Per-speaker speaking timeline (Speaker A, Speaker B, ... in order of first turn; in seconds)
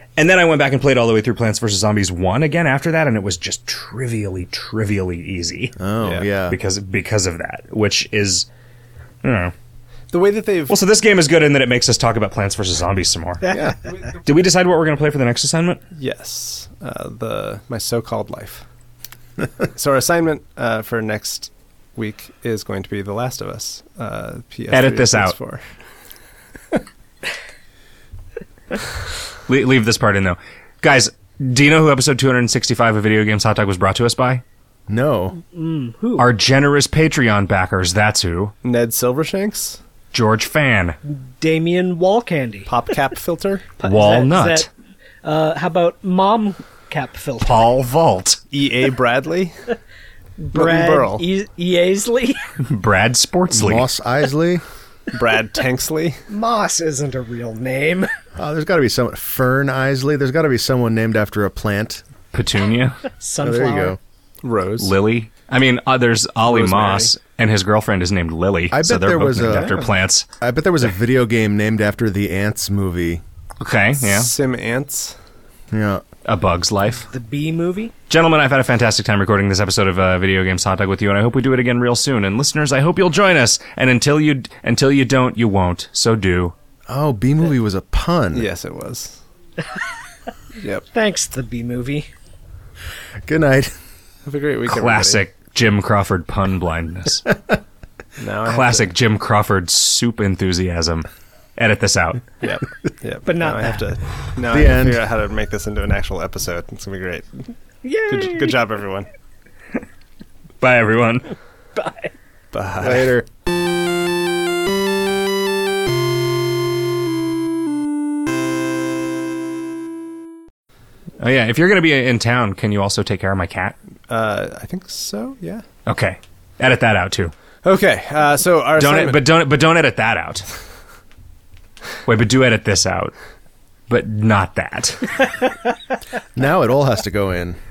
Speaker A: 0.2-5.8, 6.5-8.5, 9.2-9.5, 10.7-13.4, 14.2-15.8, 24.7-25.4, 29.5-34.4, 36.2-38.5, 40.1-41.0, 43.8-44.7, 47.4-48.4, 52.6-53.9, 62.3-63.0, 64.8-70.2, 73.6-74.3, 76.2-77.0, 78.1-86.5, 94.7-97.3, 98.4-102.3, 110.6-111.3, 121.2-123.8, 125.8-127.3, 128.8-130.5, 132.0-133.1, 133.9-135.2
Speaker B: 5.8-6.6, 34.9-35.4, 53.5-54.6, 58.4-62.0, 63.4-64.0, 68.7-69.8, 70.4-73.2, 75.7-76.0, 86.9-88.5, 93.2-93.7, 104.5-105.0, 112.8-113.3, 136.3-137.6
Speaker C: 6.0-6.3, 10.1-10.7, 15.9-18.6, 19.7-25.6, 38.6-39.8, 42.7-43.6, 48.5-49.5, 50.5-51.2, 55.1-56.2, 64.4-64.9, 66.5-67.1, 74.0-75.2, 88.3-89.2, 90.6-90.8, 94.2-95.2, 98.2-98.9, 102.4-107.3, 108.1-109.1, 112.5-113.1, 124.1-125.6, 127.6-129.2
Speaker D: 13.4-13.7, 35.5-36.2, 41.1-42.7, 43.8-44.6, 45.2-47.5, 50.4-52.4, 56.3-58.1, 63.2-64.0, 77.0-77.9, 90.9-92.1, 103.2-103.8, 107.8-108.5, 111.8-112.1